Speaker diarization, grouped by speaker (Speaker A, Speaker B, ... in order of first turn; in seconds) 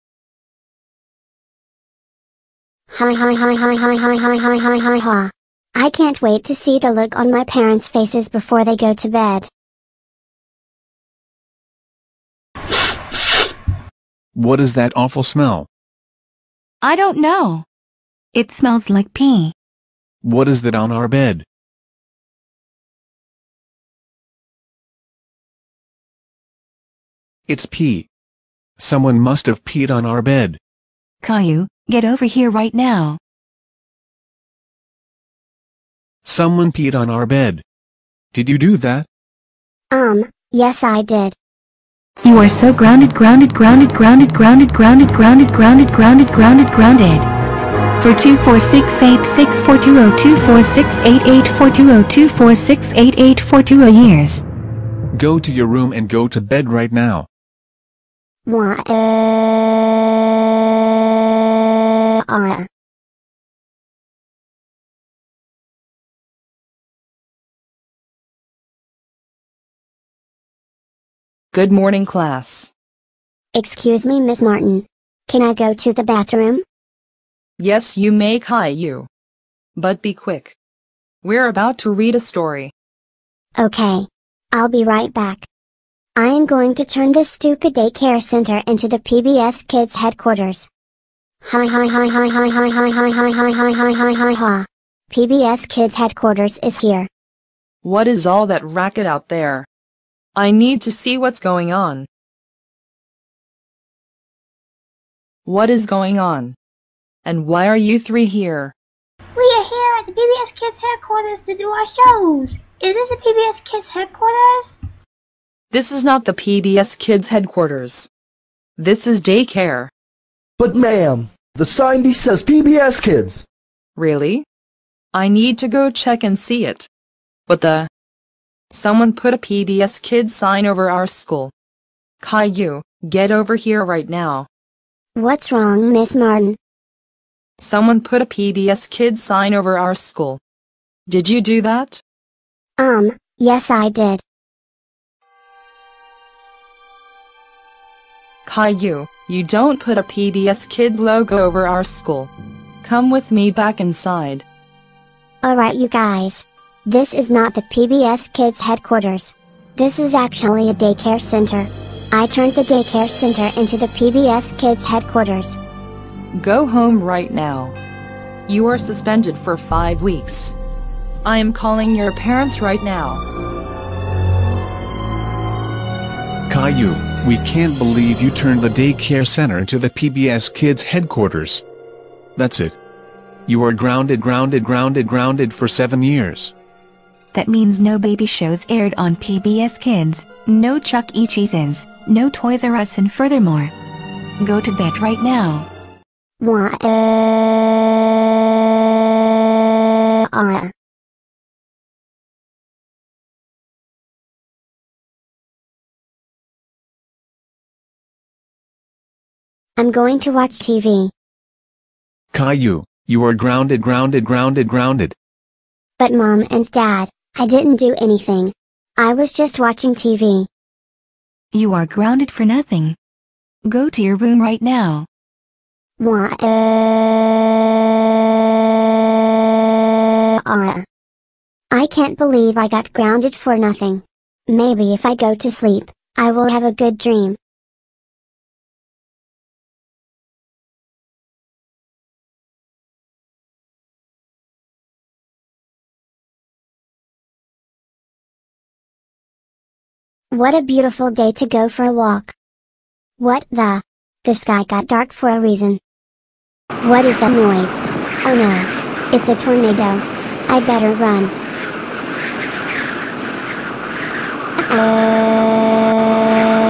Speaker A: 2.9-9.5, 39.9-41.4, 58.5-60.0, 62.2-62.7, 73.5-76.6, 83.6-85.5, 86.2-90.7, 91.5-97.1, 135.2-136.6, 142.8-144.2, 155.4-165.6, 196.4-197.9, 200.3-200.7, 209.8-211.1, 216.0-220.5, 226.0-227.5, 230.4-230.8, 231.7-237.4, 250.3-252.3, 253.2-255.8, 256.8-261.3, 264.6-266.5
Speaker B: 14.3-15.7, 20.2-21.4, 27.5-28.1, 28.8-30.6, 36.2-37.6, 38.3-39.1, 55.1-57.3, 176.5-181.6, 182.4-182.8, 183.5-186.5, 212.3-215.2
Speaker C: 16.8-17.7, 18.3-19.5, 31.2-33.2, 42.2-47.3, 48.0-54.4, 187.3-193.7, 194.4-195.7, 221.5-223.0, 223.7-225.1
Speaker D: 71.5-72.7, 77.6-79.1, 79.8-80.6, 81.2-82.7, 97.8-99.7, 100.4-102.1, 105.5-106.5, 107.2-108.7, 115.7-118.1, 118.8-119.9, 124.0-124.5, 125.1-126.9, 127.5-127.9, 128.7-131.5, 132.2-134.5, 137.6-140.4, 141.1-142.0, 148.5-152.3, 152.8-154.4, 166.3-167.8, 168.5-170.6, 171.2-173.2
Speaker E: 109.4-114.8
Speaker F: 120.6-123.4